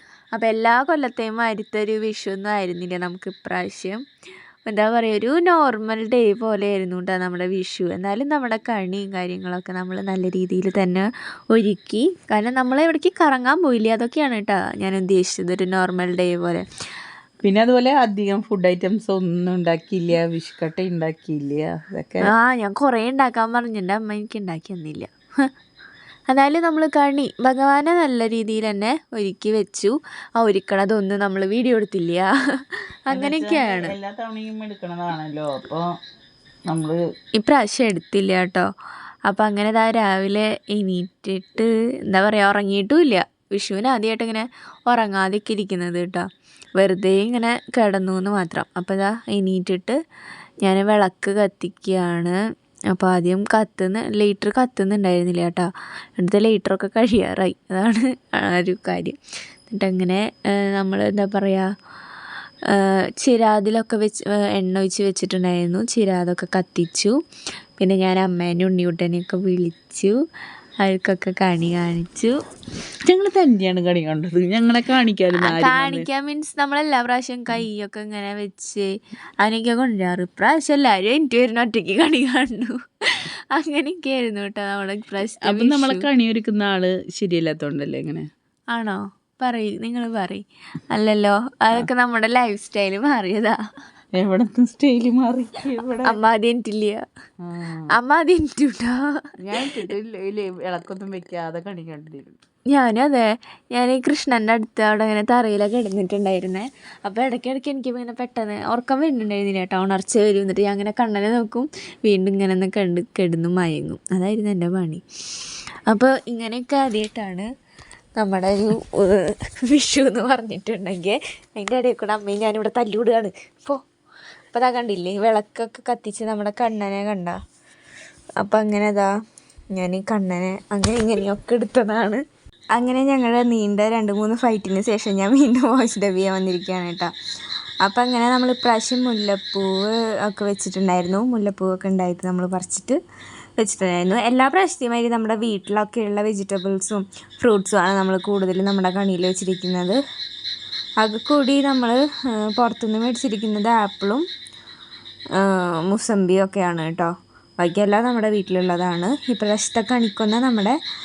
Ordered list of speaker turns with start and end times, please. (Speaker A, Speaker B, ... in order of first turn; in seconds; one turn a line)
Speaker A: 0.3-4.0
Speaker A: 4.7-16.6
Speaker B: 17.4-22.3
Speaker A: 22.2-25.5
Speaker A: 26.3-34.0
Speaker B: 33.1-35.8
Speaker B: 36.7-37.0
Speaker A: 37.4-38.7
Speaker A: 39.2-50.0
Speaker A: 50.6-52.4
Speaker A: 52.9-59.2
Speaker A: 59.7-61.6
Speaker A: 62.7-67.2
Speaker A: 67.8-70.1
Speaker A: 70.8-72.3
Speaker B: 73.0-76.0
Speaker A: 75.4-78.9
Speaker A: 79.4-86.0
Speaker B: 85.3-88.3
Speaker A: 88.7-93.6
Speaker B: 94.2-96.2
Speaker A: 96.0-97.0
Speaker B: 97.4-97.9
Speaker A: 97.9-99.0
Speaker B: 99.4-102.4
Speaker A: 102.7-115.0
Speaker A: 115.9-117.5
Speaker A: 118.2-123.8
Speaker A: 124.5-127.4
Speaker A: 128.4-129.1
Speaker A: 129.7-132.2
Speaker A: 132.7-137.1
Speaker A: 137.8-143.0
Speaker A: 143.6-150.0
Speaker A: 151.0-154.2
Speaker A: 155.4-160.8